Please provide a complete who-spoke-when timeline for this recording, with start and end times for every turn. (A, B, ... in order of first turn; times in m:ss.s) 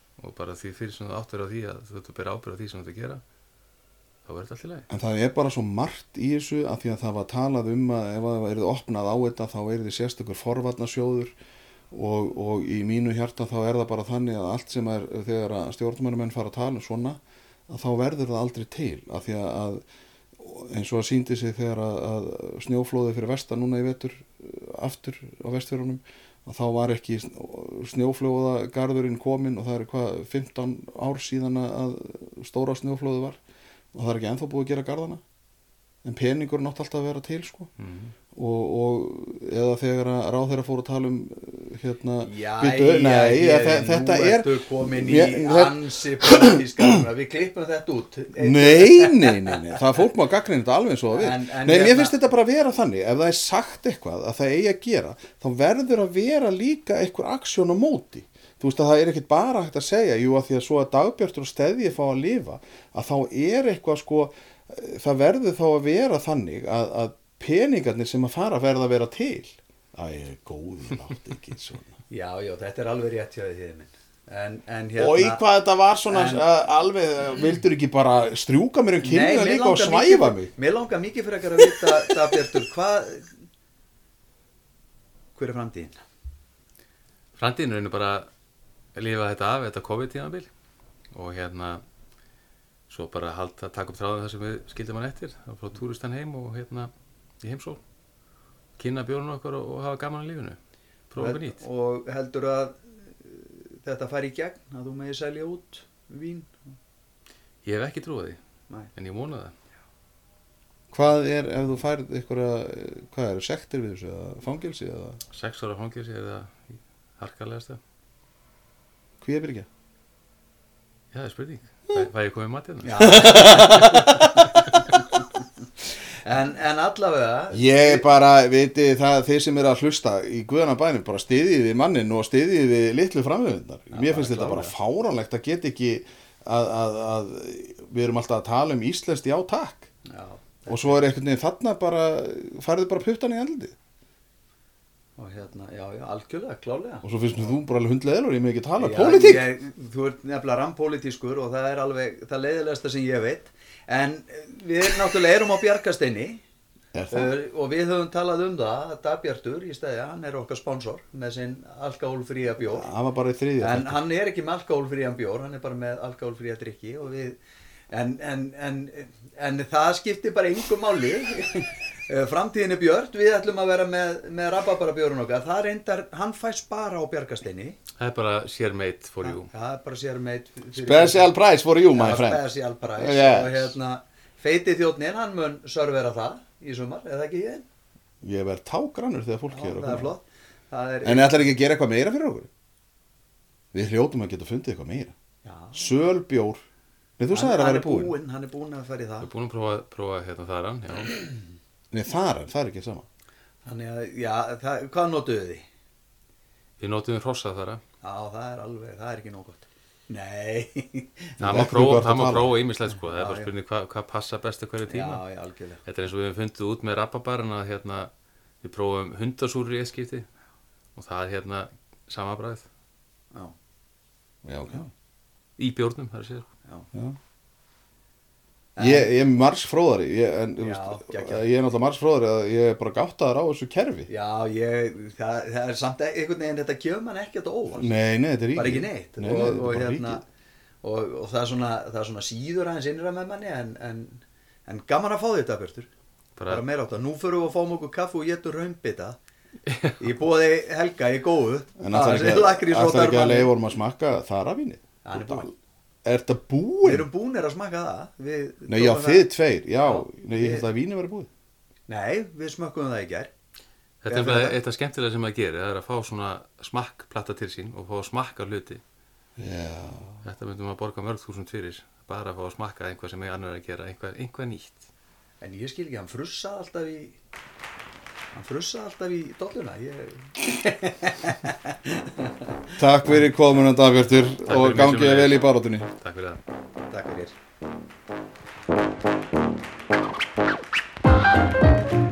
0:00.2-0:03.2 A
0:04.2-0:04.9 A
0:04.9-0:11.3 B
0:11.9-0:19.8 B
0:20.4-0:33.4 B
0:33.9-0:35.2 B
0:36.0-0:37.7 B
0:37.8-0:38.1 A
0:38.3-0:46.6 B
0:42.2-0:49.8 C
0:48.4-1:12.0 B
0:51.1-0:52.2 C
1:12.1-1:15.4 C
1:15.0-1:20.5 B
1:16.1-1:16.4 C
1:19.0-1:23.4 C
1:25.3-1:26.0 C
1:27.4-1:28.3 A
1:28.9-1:30.5 A
1:31.1-1:31.8 A
1:32.9-1:37.8 A
1:38.8-1:40.6 A
1:41.1-1:41.6 A
1:41.2-1:46.8 C
1:47.6-1:48.4 A
1:48.9-1:49.5 A
1:50.9-1:55.2 B
1:55.3-1:57.8 A
1:59.2-1:59.7 B
2:01.1-2:03.4 A
2:02.8-2:05.3 C
2:03.0-2:04.8 B
2:06.2-2:08.0 C
2:07.5-2:19.9 B
2:13.9-2:14.7 C
2:20.0-2:21.0 C
2:20.7-2:23.8 B
2:25.2-2:27.1 C
2:27.0-2:29.4 B
2:28.8-2:36.4 C
2:36.9-2:37.3 B
2:37.1-2:42.9 C
2:42.6-2:44.0 B
2:43.6-2:47.4 C
2:47.9-2:57.8 C
2:58.0-2:59.5 A
2:59.2-3:01.3 C
3:00.7-3:03.7 B
3:01.9-3:07.7 C
3:08.2-3:10.1 B
3:09.5-3:11.4 C
3:11.0-3:12.5 B
3:13.7-3:15.1 B
3:15.4-3:16.0 C
3:15.7-3:16.6 B
3:17.2-3:18.1 B
3:17.3-3:19.3 C
3:19.2-3:21.2 A
3:21.9-3:23.0 B
3:23.6-3:25.6 C
3:26.8-3:27.8 A
3:28.0-3:31.7 C
3:31.4-3:35.2 A
3:31.4-3:32.6 B
3:32.9-3:33.5 C
3:34.9-3:35.8 C
3:35.8-3:38.1 A
3:38.6-3:40.3 A
3:40.9-3:42.7 A
3:44.4-3:44.9 B
3:45.6-3:46.5 A
3:46.9-3:47.2 B
3:48.8-3:49.1 C
3:48.8-3:54.1 B
3:50.6-3:51.4 C
3:54.1-3:57.9 C
3:57.8-4:00.2 B
3:58.5-4:00.2 C
4:00.8-4:05.9 C
4:06.4-4:06.6 A
4:06.4-4:09.2 C
4:09.7-4:10.0 A
4:10.0-4:13.5 C
4:11.8-4:15.5 B
4:15.0-4:15.5 C
4:16.0-4:17.1 B
4:16.8-4:19.3 C
4:18.7-4:21.3 B
4:19.8-4:20.7 C
4:21.9-4:23.3 C
4:24.0-4:28.8 A
4:24.1-4:24.6 C
4:29.4-4:30.2 B
4:30.2-4:34.9 A
4:35.4-4:37.2 C
4:38.3-4:42.8 C
4:42.8-4:45.9 B
4:44.4-4:46.4 A
4:46.9-4:47.3 C